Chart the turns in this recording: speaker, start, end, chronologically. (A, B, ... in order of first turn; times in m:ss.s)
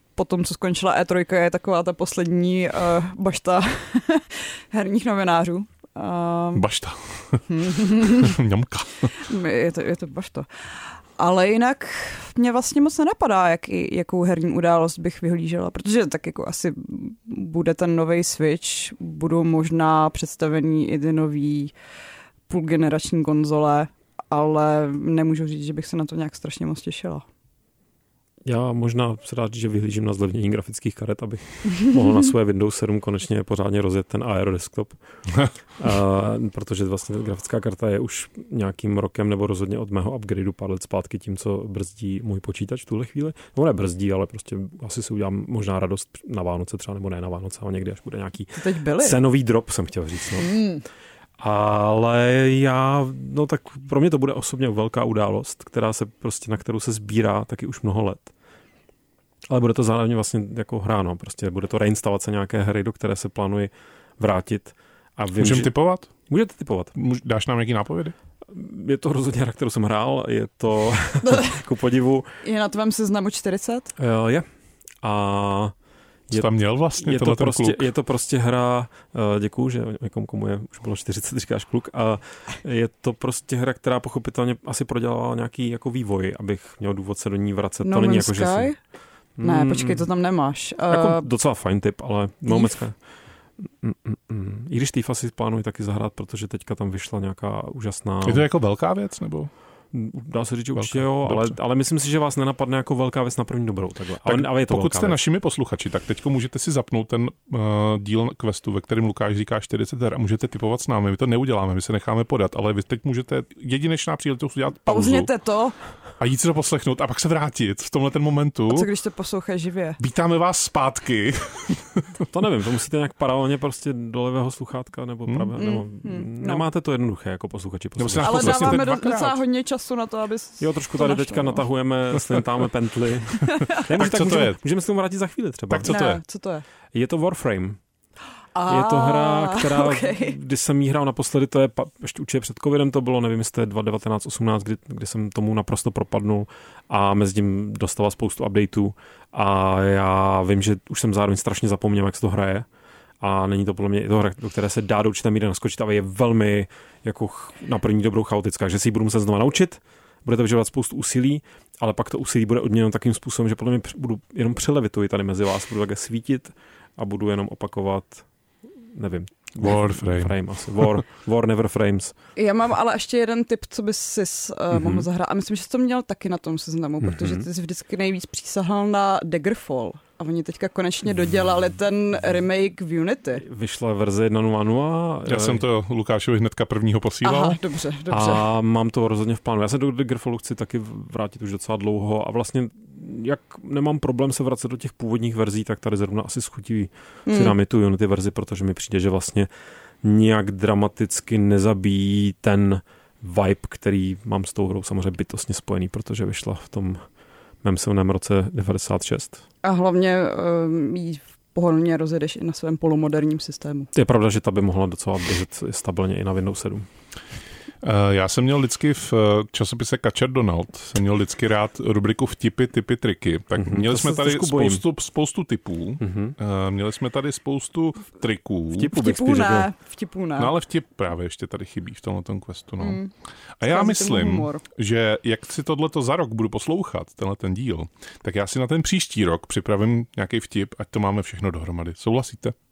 0:00.2-0:06.7 A
0:06.6-0:09.2 B
0:07.5-0:08.4 A
0:09.2-0:10.5 A
0:11.2-0:21.7 A
0:22.5-0:27.2 A
0:28.4-0:50.7 C
0:48.6-0:49.2 A
0:50.4-0:50.8 A
0:51.4-0:58.3 C
0:59.5-1:05.7 C
1:05.4-1:06.1 B
1:06.3-1:07.0 C
1:07.0-1:08.2 B
1:08.5-1:12.3 C
1:11.2-1:11.6 A
1:12.4-1:13.9 A
1:14.0-1:14.5 C
1:15.0-1:15.7 C
1:16.3-1:28.7 C
1:16.3-1:17.9 B
1:27.8-1:28.8 A
1:29.4-1:30.1 C
1:29.4-1:31.3 A
1:30.9-1:33.0 C
1:32.5-1:32.7 A
1:33.6-1:38.4 C
1:38.2-1:39.5 B
1:39.9-1:45.2 C
1:40.8-1:41.6 B
1:44.2-1:55.3 B
1:54.9-1:55.8 A
1:56.2-1:58.9 B
1:58.7-2:00.0 A
2:00.0-2:02.1 B
2:02.3-2:08.8 C
2:05.6-2:06.6 A
2:08.0-2:09.4 B
2:08.2-2:11.6 A
2:10.6-2:16.0 C
2:13.4-2:13.8 A
2:13.9-2:14.6 B
2:15.7-2:16.2 B
2:15.8-2:16.6 A
2:16.9-2:17.8 C
2:18.6-2:20.4 A
2:18.7-2:32.7 C
2:33.2-2:48.2 C
2:48.8-2:52.1 C
2:49.6-2:50.4 B
2:52.4-3:03.4 A
2:54.7-2:55.1 C
2:57.0-2:57.5 C
3:03.4-3:05.6 C
3:05.3-3:07.6 B
3:07.2-3:08.5 A
3:08.1-3:19.5 C
3:17.3-3:17.5 A
3:20.0-3:27.0 C
3:27.6-3:29.4 C
3:29.6-3:33.9 A
3:33.9-3:36.9 C
3:37.8-3:48.9 B
3:43.6-3:44.8 C
3:46.0-3:46.4 C
3:48.7-3:49.7 C
3:48.9-3:50.5 A
3:50.4-3:53.0 B
3:52.8-3:53.1 A
3:53.6-4:02.6 B
3:53.6-3:54.6 A